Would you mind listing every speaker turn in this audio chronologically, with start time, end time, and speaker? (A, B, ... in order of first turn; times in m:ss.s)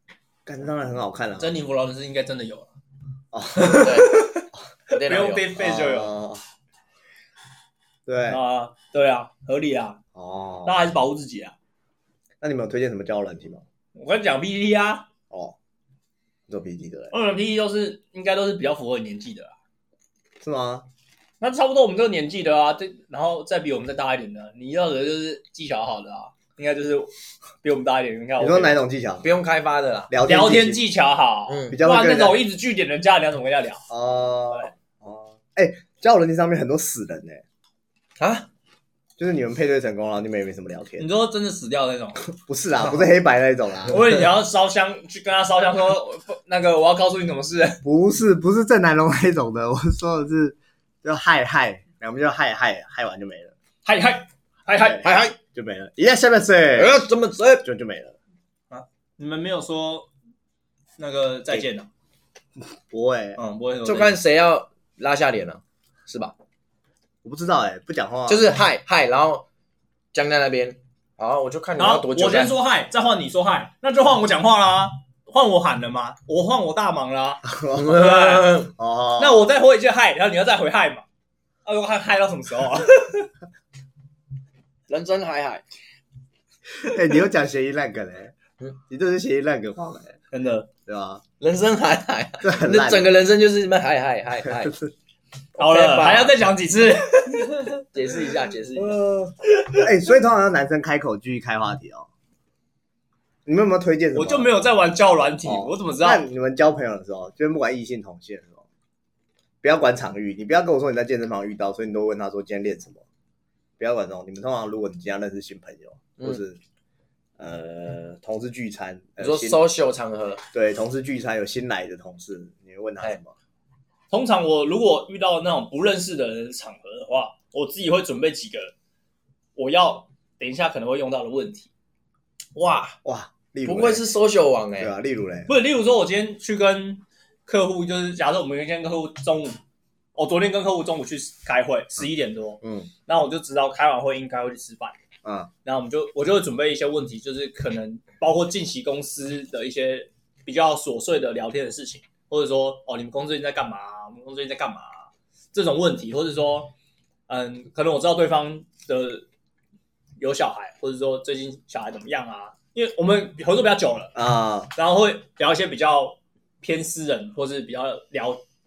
0:00.4-0:01.5 A
0:01.4-0:02.7 B
0:03.3-0:04.0 A
0:03.6-0:06.1 B
0:03.8-0:04.2 C
0:04.9-0:05.5 C
0:05.6-0:06.4 A
0:08.0-0:08.4 A
0:08.3-0:10.0 B
0:10.1-0:10.9 A
0:10.6-0:11.5 B
0:12.4-0:13.6 A
0:13.9-0:15.1 B
0:15.3-0:15.6 A
0:16.5-0:17.1 A
0:17.1-0:19.5 B
0:20.4-0:20.8 A
0:21.4-0:27.1 B
0:27.6-0:28.8 B
0:28.4-0:29.3 A
0:29.2-0:30.1 C
0:30.1-0:30.8 A
0:30.2-0:33.8 B
0:31.5-0:31.8 C
0:31.7-0:32.4 A
0:33.9-0:37.4 A
0:38.2-0:38.5 C
0:39.2-0:41.0 A
0:41.0-0:42.2 B
0:42.4-0:44.3 A
0:43.8-0:47.8 B
0:47.8-0:53.5 A
0:53.8-0:55.1 B
0:54.7-0:57.0 A
0:55.0-0:55.4 C
0:56.8-0:57.6 C
0:57.6-0:58.2 A
0:58.7-1:00.1 B
1:01.0-1:01.9 B
1:02.9-1:03.4 A
1:03.4-1:04.2 B
1:03.8-1:06.3 C
1:07.2-1:08.5 A
1:08.3-1:09.4 C
1:10.1-1:12.5 C
1:11.8-1:18.6 B
1:17.5-1:18.2 A
1:17.7-1:18.7 C
1:18.7-1:19.5 A
1:19.2-1:21.0 B
1:21.6-1:23.3 B
1:24.9-1:25.6 C
1:26.8-1:28.3 A
1:28.9-1:30.2 A
1:30.3-1:30.7 B
1:30.8-1:31.2 A
1:31.4-1:34.8 C
1:32.4-1:33.1 A
1:35.6-1:36.4 C
1:35.6-1:37.6 B
1:37.9-1:39.0 C
1:38.8-1:42.1 A
1:43.4-1:44.6 A
1:44.1-1:46.2 B
1:45.4-1:48.6 A
1:49.6-1:53.0 A
1:53.8-1:56.6 A
1:57.4-1:59.6 A
1:59.2-2:00.4 C
2:00.5-2:03.3 A
2:04.1-2:08.7 B
2:09.6-2:11.7 B
2:12.5-2:13.0 C
2:13.0-2:14.0 A
2:13.6-2:14.9 C
2:14.8-2:15.5 A
2:15.5-2:19.6 B
2:20.2-2:25.0 B
2:22.6-2:22.9 A
2:25.2-2:25.5 A
2:25.6-2:36.7 B
2:37.3-2:39.2 B
2:40.2-2:44.1 B
2:44.1-2:44.7 A
2:44.7-2:48.4 B